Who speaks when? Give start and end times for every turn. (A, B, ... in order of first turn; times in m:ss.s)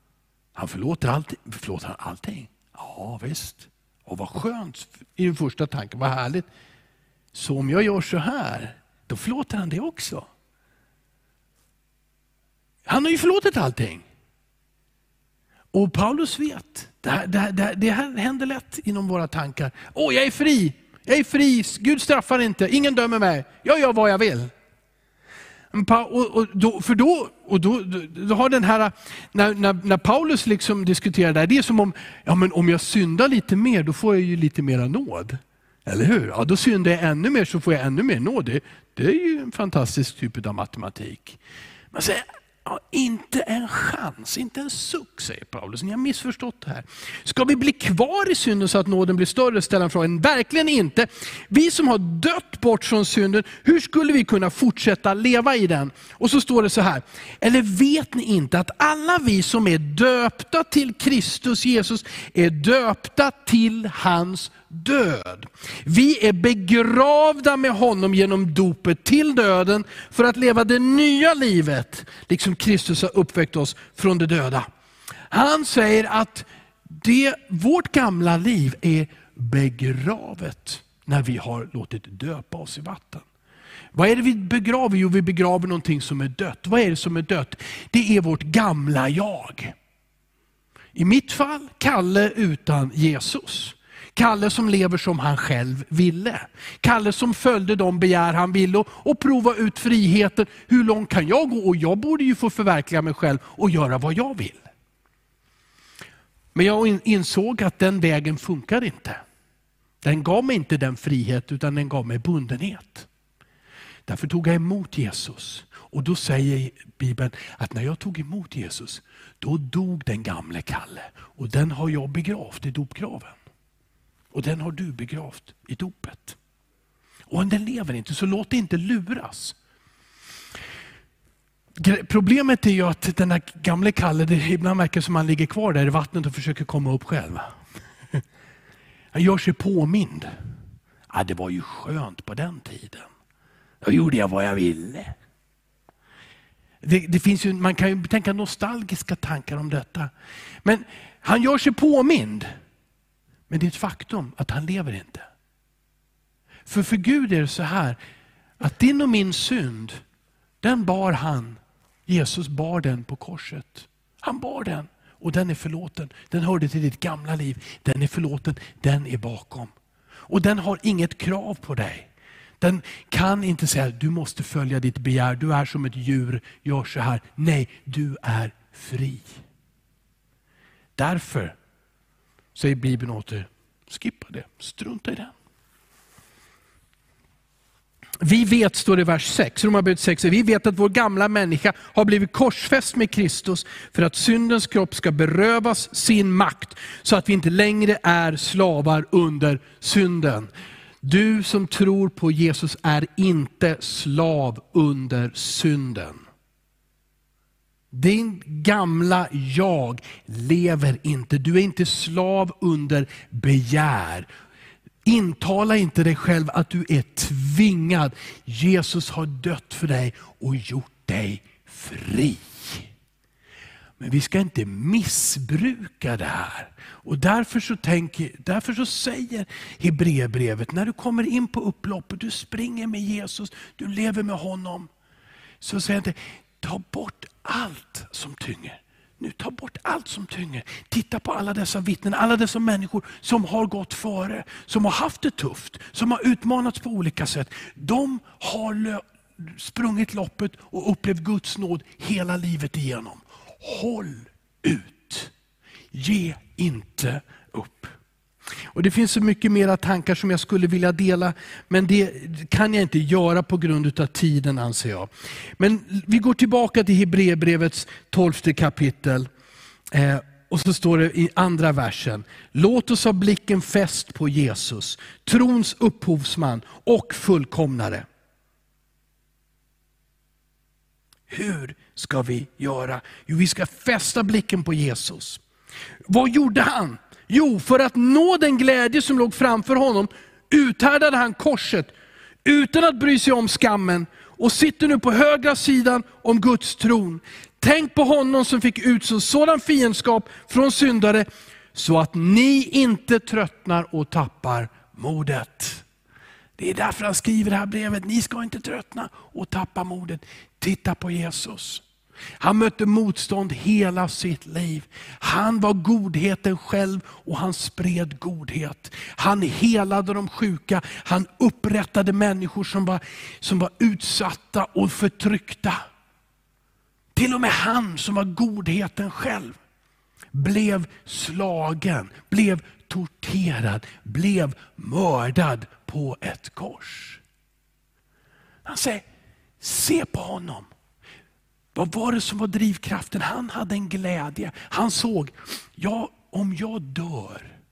0:00.6-0:06.5 A
0:07.3-0:10.3 A
0:12.9-0:14.0 A
0:15.7-0:24.5 A
0:25.7-0:41.4 A
0:41.9-1:14.6 A
1:15.3-1:23.2 A
1:23.9-1:29.8 A
1:31.0-1:44.6 A
1:46.5-1:49.2 A
1:50.0-1:53.1 A
1:54.1-2:03.4 A
2:04.3-2:06.4 A
2:07.3-2:09.6 A
2:11.8-2:17.5 A
2:19.1-2:20.3 A
2:21.1-2:23.1 A
2:23.8-2:25.2 A
2:26.8-2:30.1 A
2:30.6-2:32.5 A
2:33.5-2:35.3 A
2:36.7-2:38.0 A
2:38.6-2:40.0 A
2:40.6-2:49.7 A
2:50.3-2:59.3 A
3:01.0-3:01.6 A
3:02.6-3:05.3 A
3:08.2-3:20.5 A
3:21.0-3:26.2 A
3:27.9-3:34.3 A
3:35.1-3:42.9 A
3:44.0-3:54.9 A
3:55.6-4:15.3 A
4:15.9-4:17.9 A
4:18.7-4:29.3 A
4:29.9-4:38.1 A
4:41.3-4:45.4 A
4:46.1-4:51.9 A
4:52.4-5:05.8 A
5:06.6-5:11.8 A
5:12.4-5:25.8 A
5:27.2-5:29.6 A
5:30.3-5:37.2 A
5:38.6-5:39.1 A
5:39.6-5:40.7 A
5:41.8-5:47.6 A